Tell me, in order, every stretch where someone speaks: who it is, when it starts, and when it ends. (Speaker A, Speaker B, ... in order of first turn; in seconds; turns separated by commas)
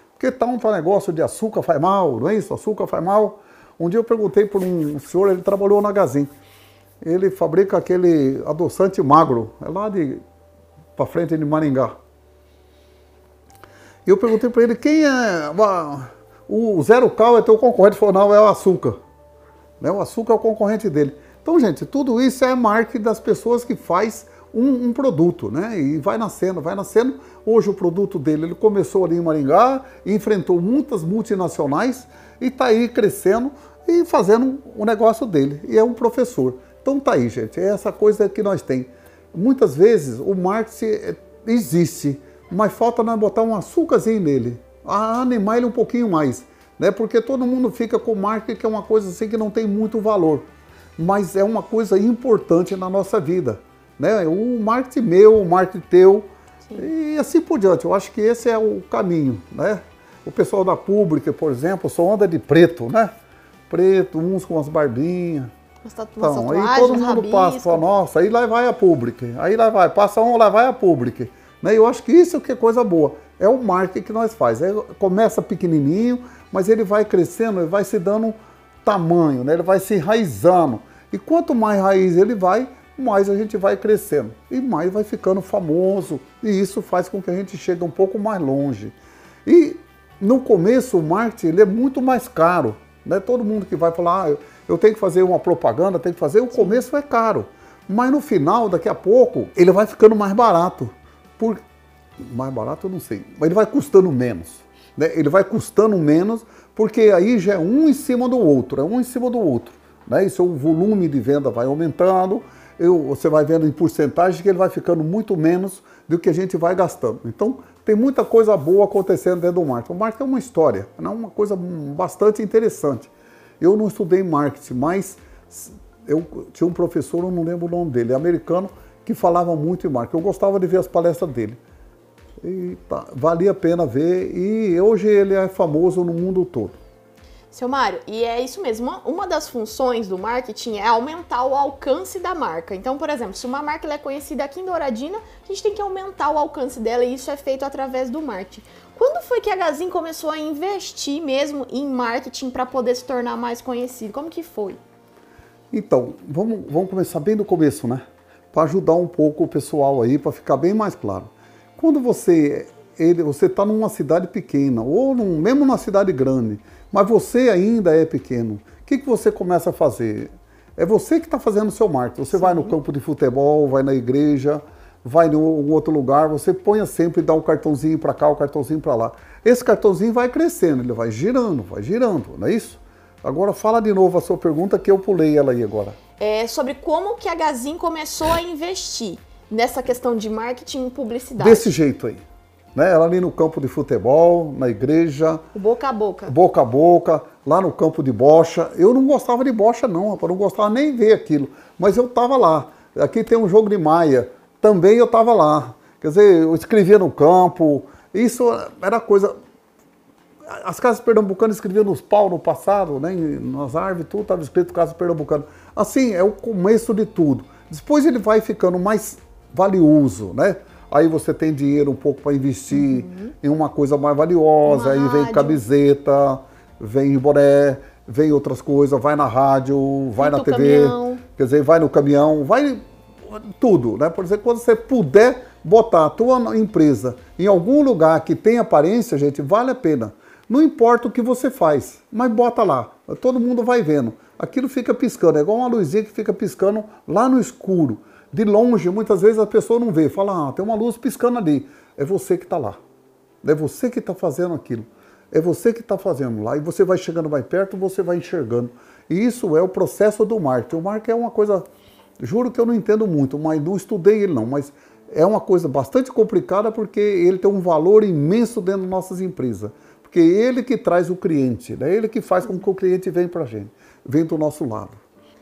Speaker A: 0.2-6.3, Speaker A: 7.0-10.2, Speaker A: 11.0-11.9, Speaker A: 14.1-19.0, Speaker A: 19.8-63.1, Speaker A: 63.7-65.5, Speaker B: 65.8-67.8, Speaker A: 66.2-101.6, Speaker B: 96.5-96.8, Speaker A: 102.2-131.6, Speaker A: 132.4-136.8, Speaker B: 137.5-154.8, Speaker A: 155.7-186.0, Speaker B: 172.3-172.7, Speaker B: 186.2-191.7, Speaker A: 191.4-192.2, Speaker A: 192.8-195.4, Speaker B: 195.5-196.3, Speaker A: 196.3-209.3, Speaker A: 210.5-252.8, Speaker B: 222.7-223.3, Speaker B: 224.7-225.6, Speaker B: 230.2-231.2, Speaker A: 253.4-261.6, Speaker A: 262.2-275.0